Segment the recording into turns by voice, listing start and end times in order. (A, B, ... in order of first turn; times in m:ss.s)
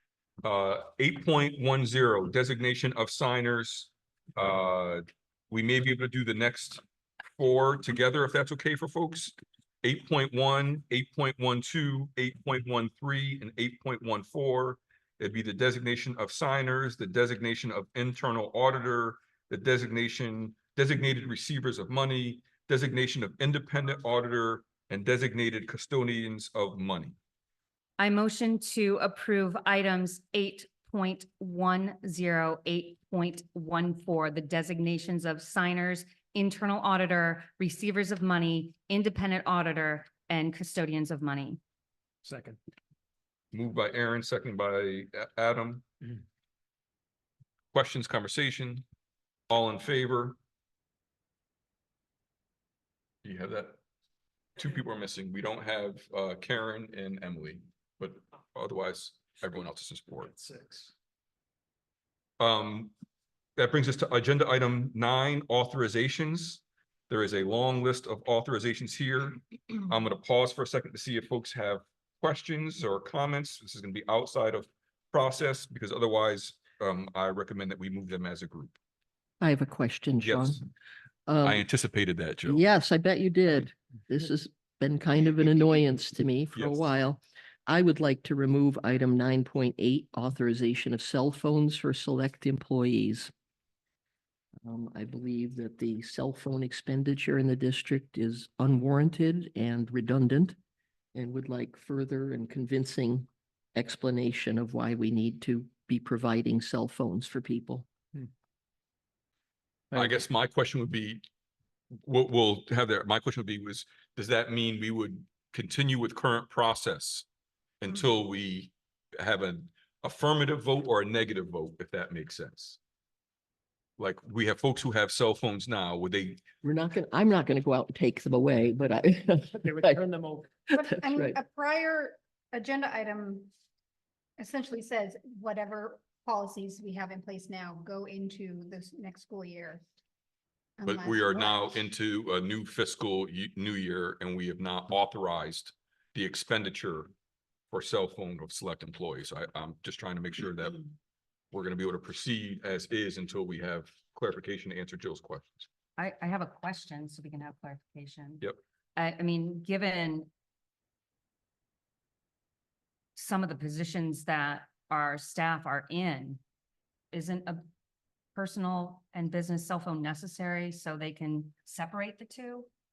0:00.4-0:06.8 A
0:07.4-0:27.2 A
0:28.0-0:41.6 B
0:42.2-0:42.6 C
0:43.5-0:45.8 A
0:47.7-0:48.8 A
0:49.5-0:50.4 A
0:53.2-0:53.8 A
0:54.6-1:00.3 A
1:00.2-1:00.9 C
1:02.4-1:02.9 A
1:03.6-1:18.8 A
1:19.4-1:20.6 D
1:20.2-1:20.6 A
1:21.3-1:21.6 D
1:21.4-1:22.6 A
1:22.5-1:33.3 D
1:26.5-1:26.9 A
1:34.6-1:40.6 D
1:41.1-1:47.9 D
1:49.9-1:51.2 A
1:52.0-1:57.2 A
1:57.8-2:02.8 A
2:04.0-2:06.4 A
2:06.6-2:10.0 D
2:09.6-2:10.5 C
2:10.7-2:11.4 D
2:10.7-2:13.5 E
2:14.4-2:19.8 E
2:20.8-2:21.8 E
2:20.8-2:27.1 A
2:27.7-2:30.9 A
2:31.5-2:35.7 A
2:36.0-2:40.3 B
2:43.2-2:46.4 B
2:47.1-2:47.6 B
2:48.3-2:52.7 B